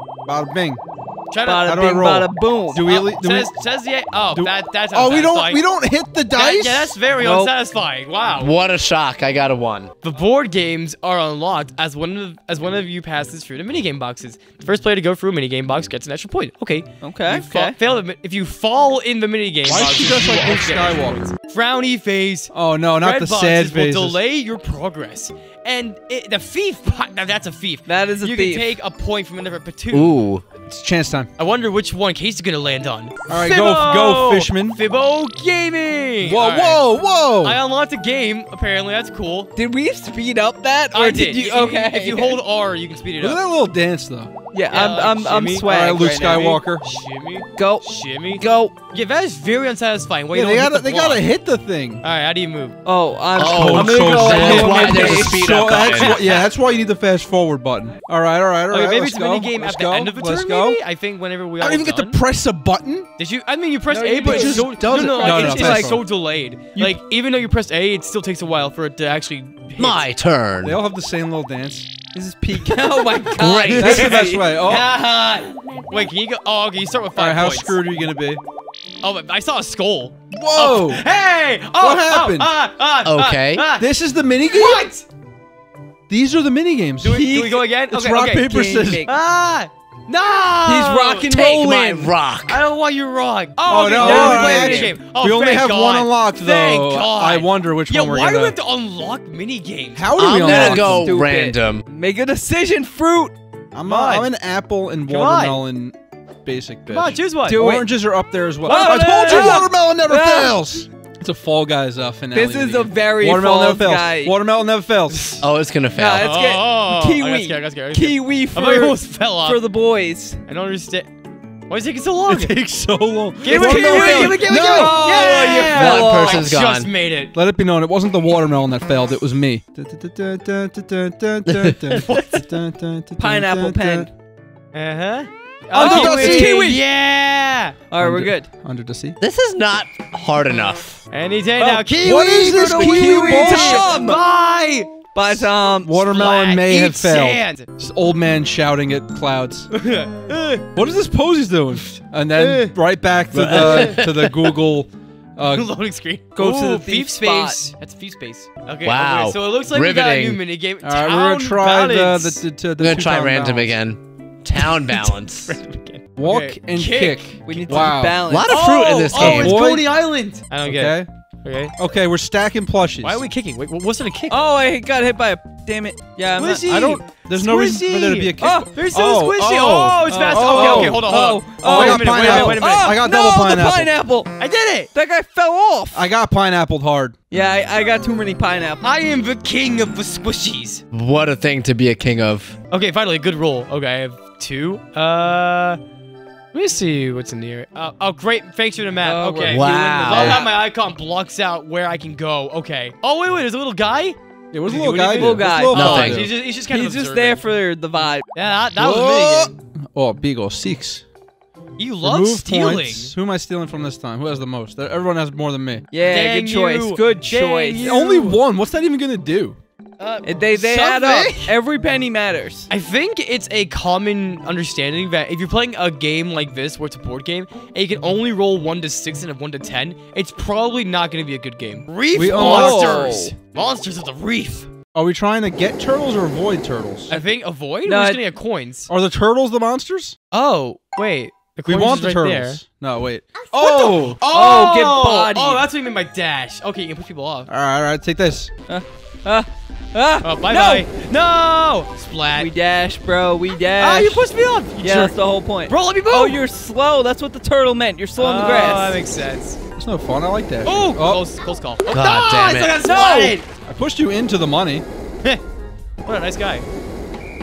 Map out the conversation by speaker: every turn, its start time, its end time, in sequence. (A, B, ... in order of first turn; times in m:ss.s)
0:00.3-0:00.8 A
0:01.3-0:01.7 B
0:01.4-0:02.8 C
0:01.6-0:03.5 A
0:02.8-0:05.6 B
0:04.3-0:07.0 A
0:06.3-0:08.5 B
0:07.2-0:07.5 C
0:08.4-0:09.9 D
0:10.0-0:30.2 B
0:17.0-0:17.8 C
0:19.6-0:21.2 A
0:22.5-0:24.2 A
0:27.9-0:28.8 C
0:29.9-0:30.4 D
0:30.7-0:31.3 A
0:31.4-0:36.9 B
0:33.3-0:34.8 A
0:36.2-0:37.6 A
0:37.4-0:39.5 B
0:39.6-0:42.4 C
0:40.9-0:43.4 B
0:43.2-0:44.3 A
0:44.5-0:46.6 C
0:44.7-0:45.7 B
0:45.6-0:46.8 A
0:46.8-0:51.2 B
0:47.6-0:48.7 C
0:50.3-0:52.0 A
0:52.0-0:52.8 B
0:52.8-0:55.5 C
0:53.4-0:56.2 D
0:53.4-1:00.8 A
0:54.1-0:55.1 B
0:55.7-0:56.5 B
0:58.7-1:02.2 B
1:01.6-1:03.1 A
1:03.2-1:10.1 B
1:03.9-1:06.0 C
1:04.2-1:06.0 A
1:09.8-1:10.8 D
1:10.6-1:11.9 A
1:12.1-1:14.5 C
1:13.4-1:14.2 D
1:13.7-1:14.9 A
1:14.1-1:17.8 B
1:17.2-1:18.4 A
1:19.0-1:23.9 B
1:20.3-1:21.0 A
1:21.8-1:22.5 A
1:23.0-1:23.7 D
1:23.8-1:24.9 A
1:24.5-1:25.1 B
1:26.1-1:27.3 A
1:27.0-1:28.5 B
1:27.1-1:27.6 C
1:27.9-1:29.1 A
1:28.2-1:29.1 C
1:29.0-1:31.3 B
1:30.7-1:32.2 C
1:31.2-1:32.6 D
1:32.5-1:40.1 B
1:33.7-1:38.6 A
1:34.0-1:35.0 C
1:40.0-1:41.1 A
1:40.2-1:41.8 D
1:40.4-1:43.4 C
1:43.7-1:55.3 A
1:43.8-1:44.3 B
1:45.1-1:45.6 B
1:46.9-1:47.6 B
1:47.5-1:47.9 C
1:48.7-1:49.7 B
1:48.7-1:50.6 C
1:52.3-1:54.4 C
1:55.1-1:55.4 B
1:55.4-1:56.4 D
1:56.0-2:00.4 C
1:56.2-1:59.6 B
2:00.5-2:01.1 B
2:01.7-2:02.6 B
2:02.3-2:05.2 A
2:03.4-2:07.3 B
2:03.5-2:06.5 C
2:05.3-2:06.9 D
2:07.3-2:14.1 A
2:11.5-2:12.0 D
2:12.0-2:12.4 B
2:13.2-2:14.1 C
2:14.7-2:17.8 B
2:15.7-2:16.6 A
2:15.8-2:16.8 C
2:17.9-2:18.5 C
2:18.0-2:19.2 A
2:19.2-2:21.0 D
2:21.1-2:25.0 B
2:21.6-2:23.9 A
2:22.6-2:24.2 C
2:25.1-2:26.0 C
2:25.6-2:29.7 A
2:26.0-2:27.7 B
2:29.7-2:30.6 B
2:30.8-2:35.7 A
2:31.8-2:32.8 B
2:33.3-2:34.6 D
2:35.5-2:42.4 B
2:36.4-2:37.6 C
2:38.8-2:40.4 D
2:40.8-2:43.8 A
2:42.8-2:45.6 D
2:44.6-2:47.9 B
2:46.2-2:48.2 A
2:47.4-2:48.6 C
2:48.3-2:49.6 D
2:48.5-2:51.7 B
2:49.1-2:49.9 A
2:50.6-2:51.1 A
2:51.8-2:53.2 A
2:53.0-2:54.4 B
2:54.3-2:56.8 C
2:56.4-3:03.1 B
2:56.7-3:01.1 A
2:58.4-2:58.7 C
3:00.1-3:04.3 C
3:01.6-3:03.9 A
3:04.4-3:04.9 B
3:04.9-3:06.1 C
3:05.9-3:07.2 A
3:07.3-3:08.8 C
3:08.8-3:10.8 B
3:10.9-3:12.6 D
3:12.7-3:15.8 B
3:16.5-3:27.4 B
3:19.0-3:19.7 C
3:19.5-3:20.5 D
3:20.1-3:20.5 A
3:24.5-3:26.3 A
3:25.1-3:28.3 C
3:25.7-3:26.2 D
3:28.4-3:29.6 B
3:28.8-3:31.0 A
3:31.8-3:33.1 B
3:32.0-3:35.9 A
3:35.9-3:37.9 C
3:36.1-3:38.4 B
3:37.8-3:39.6 A
3:40.0-3:41.6 B
3:40.2-3:42.7 C
3:42.7-3:54.7 B
3:52.2-3:53.0 A
3:52.3-3:53.3 C
3:54.9-3:57.2 A
3:57.1-3:58.9 B
3:57.9-3:58.2 C
3:58.9-4:00.2 A
4:00.3-4:02.6 B
4:01.6-4:04.2 A
4:03.6-4:07.5 B
4:04.3-4:05.6 C
4:07.5-4:08.5 A
4:08.7-4:10.9 C
4:10.2-4:12.5 B
4:12.4-4:14.3 C
4:13.8-4:15.2 B
4:14.8-4:19.0 C
4:15.7-4:16.4 B
4:18.2-4:19.6 B
4:19.8-4:21.2 A
4:20.6-4:23.4 B
4:21.9-4:23.2 D
4:22.9-4:23.4 C
4:23.7-4:24.8 A
4:26.0-4:26.6 B